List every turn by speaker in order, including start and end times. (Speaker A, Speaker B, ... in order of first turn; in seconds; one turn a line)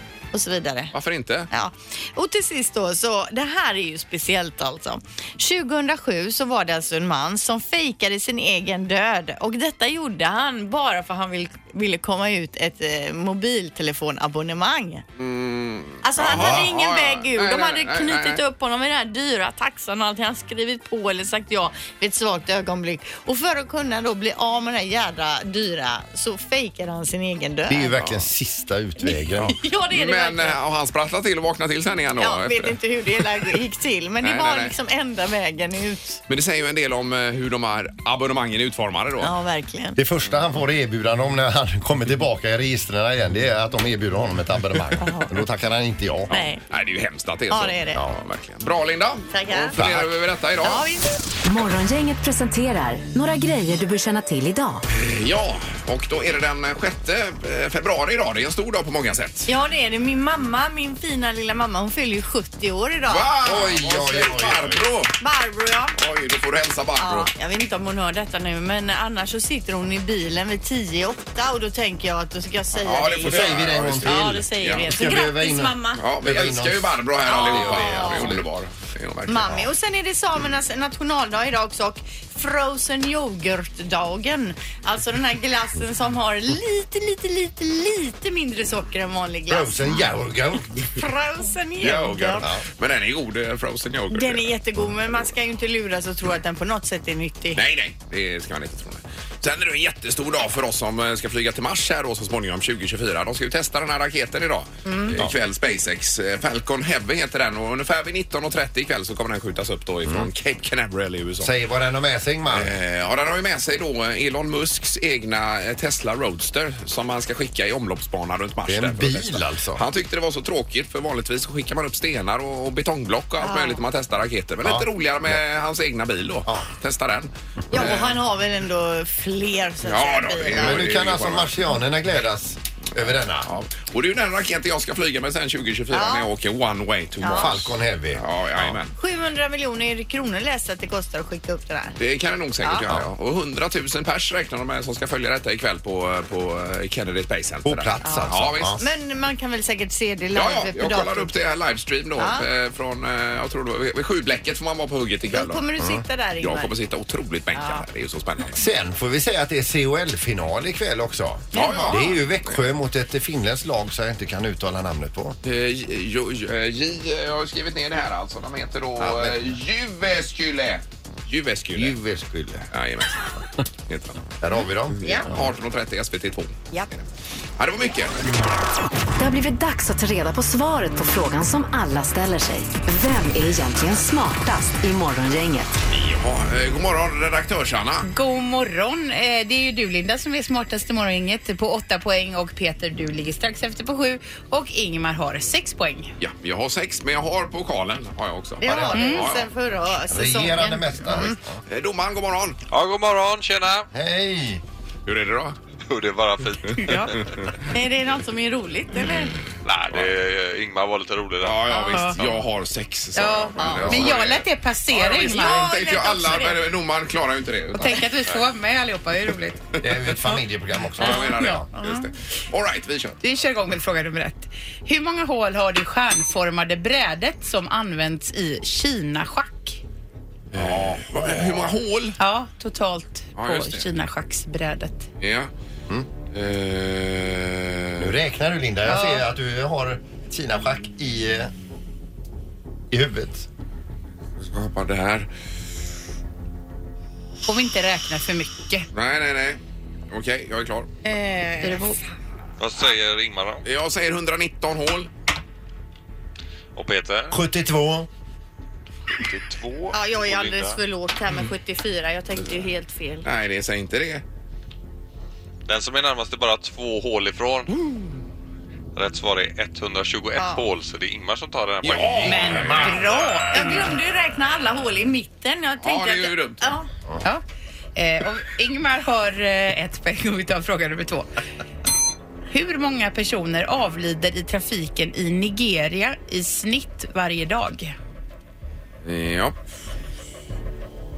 Speaker A: 0.3-0.9
Speaker B: 0.9-1.5
Speaker A: 1.5-15.0
Speaker B: 15.2-18.4
Speaker A: 16.0-28.1
Speaker C: 16.3-16.7
Speaker C: 27.7-29.6
Speaker A: 29.0-30.6
Speaker B: 29.4-33.6
Speaker A: 32.2-36.2
Speaker B: 34.2-34.8
Speaker B: 36.3-39.4
Speaker A: 39.2-40.0
Speaker C: 40.0-46.4
Speaker A: 45.0-45.3
Speaker A: 46.3-46.6
Speaker B: 46.3-50.9
Speaker A: 47.5-48.0
Speaker A: 49.3-49.8
Speaker C: 49.8-50.0
Speaker A: 50.6-51.1
Speaker D: 51.4-54.9
Speaker B: 54.9-59.5
Speaker A: 59.5-63.4
Speaker B: 63.1-65.1
Speaker C: 63.4-64.9
Speaker A: 65.2-66.0
Speaker B: 66.0-67.3
Speaker A: 67.0-76.0
Speaker B: 72.8-74.9
Speaker C: 73.2-78.4
Speaker B: 76.0-79.7
Speaker A: 77.2-78.5
Speaker A: 79.3-89.9
Speaker C: 89.5-90.8
Speaker A: 90.9-92.5
Speaker B: 91.8-94.5
Speaker A: 94.1-97.6
Speaker B: 97.5-111.5
Speaker A: 104.8-105.2
Speaker C: 110.1-110.3
Speaker C: 111.4-112.8
Speaker B: 112.5-128.2
Speaker C: 118.7-119.8
Speaker A: 123.4-123.8
Speaker C: 124.6-125.4
Speaker A: 127.7-131.0
Speaker B: 129.8-131.5
Speaker C: 130.5-133.5
Speaker B: 133.4-138.9
Speaker A: 135.9-136.3
Speaker A: 137.2-137.6
Speaker C: 137.2-138.8
Speaker A: 138.9-142.0
Speaker B: 142.0-148.8
Speaker A: 142.6-142.9
Speaker C: 147.6-148.8
Speaker A: 148.0-151.3
Speaker B: 150.3-155.6
Speaker A: 152.2-152.5
Speaker A: 155.3-156.7
Speaker C: 155.8-156.0
Speaker B: 156.4-158.7
Speaker A: 157.6-157.8
Speaker C: 158.5-165.4
Speaker A: 161.5-162.2
Speaker B: 161.5-162.6
Speaker B: 165.4-172.0
Speaker C: 169.0-169.4
Speaker C: 171.7-172.7
Speaker B: 172.7-174.2
Speaker C: 174.4-175.4
Speaker B: 174.9-176.6
Speaker B: 177.6-178.3
Speaker D: 179.2-185.7
Speaker B: 185.9-188.1
Speaker E: 188.1-196.1
Speaker B: 196.2-199.5
Speaker A: 198.6-201.4
Speaker C: 198.6-199.1
Speaker E: 198.9-199.2
Speaker C: 200.1-201.6
Speaker B: 201.7-202.6
Speaker F: 202.7-203.9
Speaker C: 203.9-204.6
Speaker B: 205.1-205.6
Speaker F: 205.9-207.2
Speaker B: 206.7-207.5
Speaker E: 206.8-207.1
Speaker A: 207.7-209.4
Speaker F: 209.6-212.4
Speaker B: 209.9-210.2
Speaker B: 211.4-218.1
Speaker E: 211.8-212.2
Speaker E: 213.2-216.3
Speaker A: 213.6-214.0
Speaker C: 213.6-214.2
Speaker A: 215.1-216.6
Speaker E: 217.7-219.6
Speaker C: 219.8-221.7
Speaker B: 219.8-220.2
Speaker B: 221.0-223.2
Speaker E: 221.0-222.1
Speaker E: 223.2-229.8
Speaker B: 230.5-232.2
Speaker C: 230.5-231.7
Speaker E: 232.2-235.1
Speaker B: 233.4-233.9
Speaker B: 235.2-235.5
Speaker B: 236.3-238.1
Speaker C: 238.0-241.5
Speaker C: 242.9-243.5
Speaker B: 244.4-245.3
Speaker E: 247.5-248.9
Speaker B: 248.9-250.9
Speaker A: 251.0-252.0
Speaker E: 251.6-252.0
Speaker F: 252.6-253.6
Speaker B: 253.7-255.1
Speaker F: 256.8-257.4
Speaker C: 257.3-258.1
Speaker F: 259.2-260.8
Speaker A: 259.9-263.3
Speaker B: 263.2-264.2
Speaker F: 265.7-267.8
Speaker F: 268.9-272.4
Speaker A: 270.4-270.7
Speaker B: 271.8-273.1
Speaker E: 272.3-273.9
Speaker C: 272.4-273.1
Speaker A: 273.5-276.9
Speaker B: 275.8-276.7
Speaker E: 278.0-281.3
Speaker E: 282.5-287.9
Speaker B: 289.0-289.6